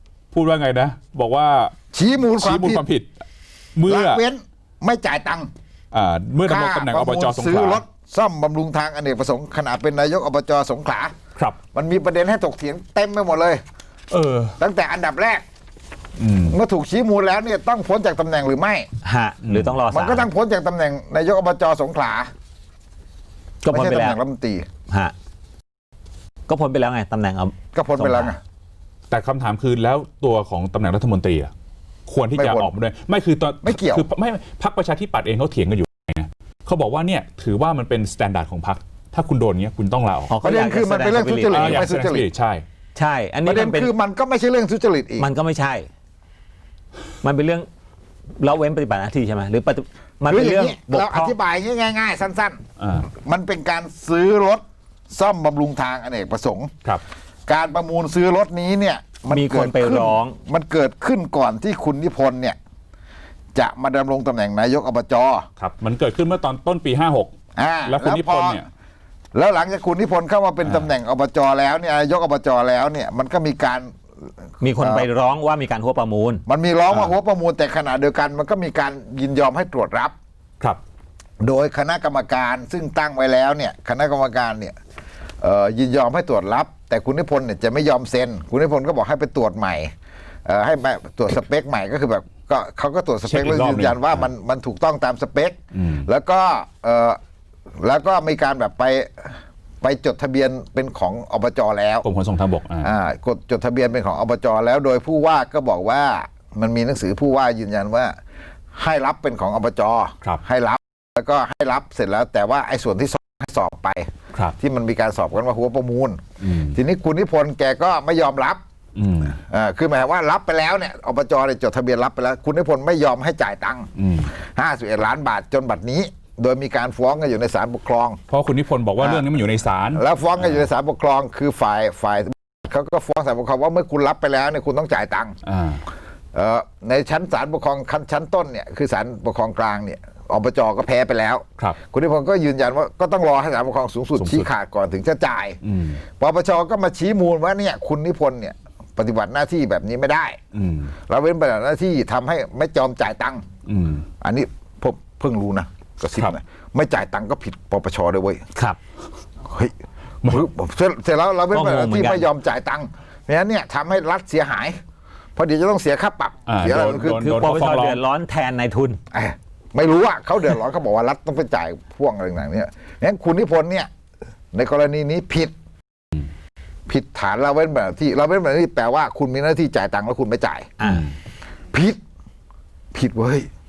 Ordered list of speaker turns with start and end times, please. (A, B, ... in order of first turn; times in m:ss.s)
0:00.3-0:01.7 A
0:01.9-0:02.9 B
0:02.3-0:03.2 A
0:03.8-0:04.2 A
0:03.9-0:05.5 B
0:05.9-0:07.8 A
0:06.4-0:11.2 B
0:11.7-0:13.6 B
0:14.1-0:14.6 A
0:14.6-0:15.4 B
0:16.2-0:16.6 A
0:16.5-0:18.9 B
0:19.0-0:20.3 C
0:19.4-0:19.8 A
0:19.9-0:22.3 B
0:23.6-0:24.2 C
0:23.7-0:24.7 B
0:24.9-0:25.1 C
0:26.5-0:28.4 C
0:27.7-0:28.4 B
0:29.1-0:31.5 A
0:32.1-0:40.3 A
0:32.3-0:32.7 B
0:33.6-0:34.1 B
0:40.3-0:41.9 C
0:40.4-0:42.3 B
0:41.5-0:42.6 A
0:43.0-0:43.9 C
0:43.4-0:45.3 B
0:45.2-0:45.9 C
0:47.2-0:47.7 C
0:48.4-0:51.4 C
0:50.3-0:56.7 B
0:52.8-0:53.1 A
0:57.5-1:02.6 B
0:59.3-1:00.4 C
1:03.6-1:05.5 B
1:05.6-1:07.3 A
1:07.6-1:08.7 B
1:07.8-1:08.7 A
1:09.3-1:13.9 B
1:14.6-1:16.4 C
1:14.8-1:15.1 B
1:16.5-1:20.1 B
1:21.4-1:24.8 B
1:25.4-1:29.9 B
1:30.4-1:37.2 B
1:33.2-1:34.3 A
1:35.7-1:36.1 A
1:37.8-1:42.1 B
1:42.0-1:42.9 A
1:42.8-1:48.2 B
1:48.7-1:58.6 B
1:56.4-1:56.8 A
1:59.0-1:59.4 A
1:59.3-2:08.2 B
2:04.0-2:04.3 A
2:08.3-2:10.7 A
2:09.0-2:09.3 B
2:09.9-2:15.4 B
2:15.5-2:15.8 A
2:16.3-2:25.6 B
2:24.2-2:24.5 A
2:25.6-2:26.0 A
2:26.2-2:30.4 B
2:30.5-2:30.9 A
2:31.1-2:33.5 B
2:33.7-2:34.1 A
2:34.2-2:38.5 B
2:39.5-2:39.7 B
2:40.3-2:44.8 B
2:41.5-2:42.3 C
2:45.4-2:47.2 B
2:46.5-2:48.0 A
2:47.2-2:49.0 C
2:49.1-2:53.9 B
2:54.5-2:55.5 B
2:56.9-3:00.7 B
3:00.8-3:01.1 C
3:01.7-3:02.0 B
3:02.9-3:03.5 B